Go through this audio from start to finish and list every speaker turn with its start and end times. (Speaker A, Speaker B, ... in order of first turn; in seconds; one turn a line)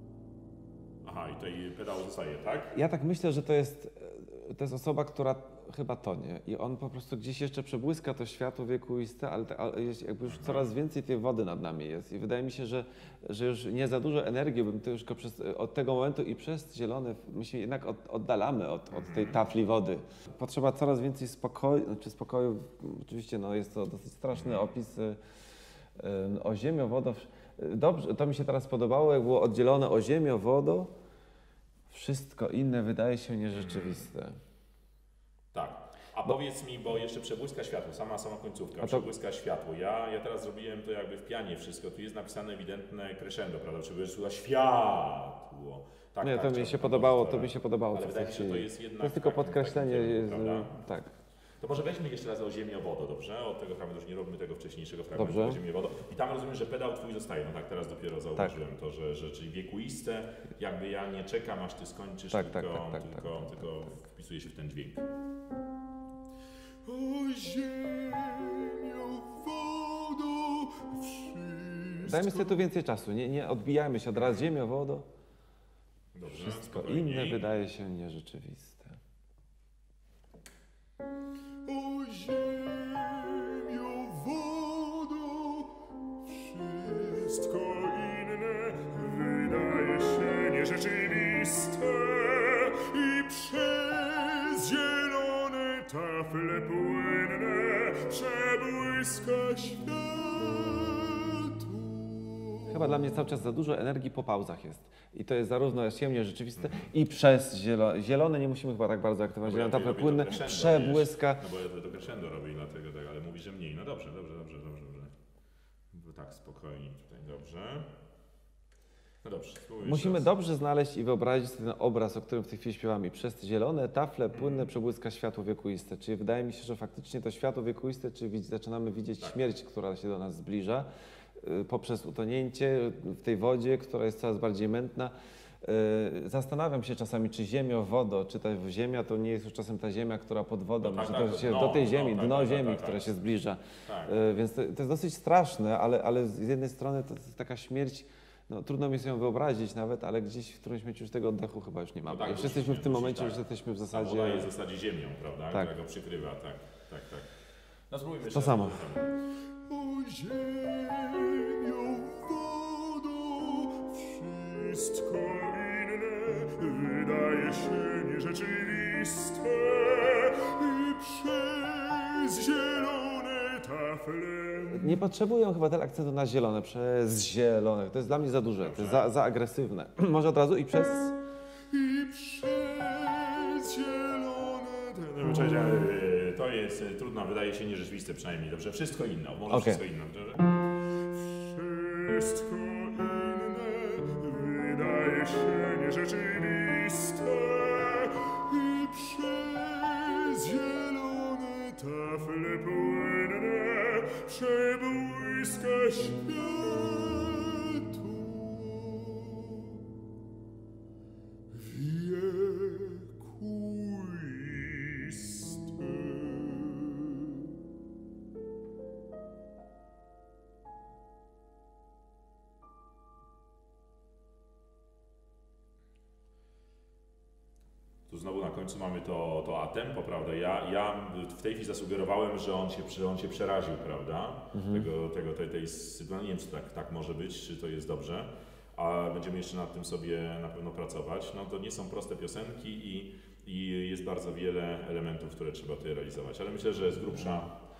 Speaker A: 1.0-2.8
Speaker B: 2.7-25.2
Speaker A: 10.2-10.7
Speaker A: 18.9-19.4
Speaker A: 24.3-24.7
Speaker B: 26.0-30.9
Speaker B: 31.9-34.4
Speaker A: 33.5-34.1
Speaker A: 35.5-50.7
Speaker B: 38.8-39.1
Speaker B: 46.2-51.1
Speaker A: 51.6-65.1
Speaker B: 55.2-55.6
Speaker B: 62.3-63.6
Speaker C: 66.9-72.6
Speaker B: 72.0-75.1
Speaker A: 76.1-77.5
Speaker B: 76.3-79.0
Speaker C: 81.7-102.8
Speaker B: 102.7-111.4
Speaker A: 106.6-106.9
Speaker A: 109.4-115.1
Speaker A: 115.9-117.9
Speaker A: 119.2-120.3
Speaker B: 119.8-130.9
Speaker A: 124.3-124.8
Speaker B: 131.4-154.5
Speaker A: 140.8-143.2
Speaker A: 143.8-144.2
Speaker A: 152.1-157.3
Speaker A: 157.9-159.2
Speaker B: 158.2-158.9
Speaker C: 159.6-175.0
Speaker B: 174.7-181.2
Speaker A: 178.6-179.1
Speaker C: 181.7-185.7
Speaker A: 185.2-190.6
Speaker B: 189.5-189.8
Speaker C: 190.9-209.9
Speaker C: 211.5-217.6
Speaker A: 228.1-247.6
Speaker B: 234.5-234.9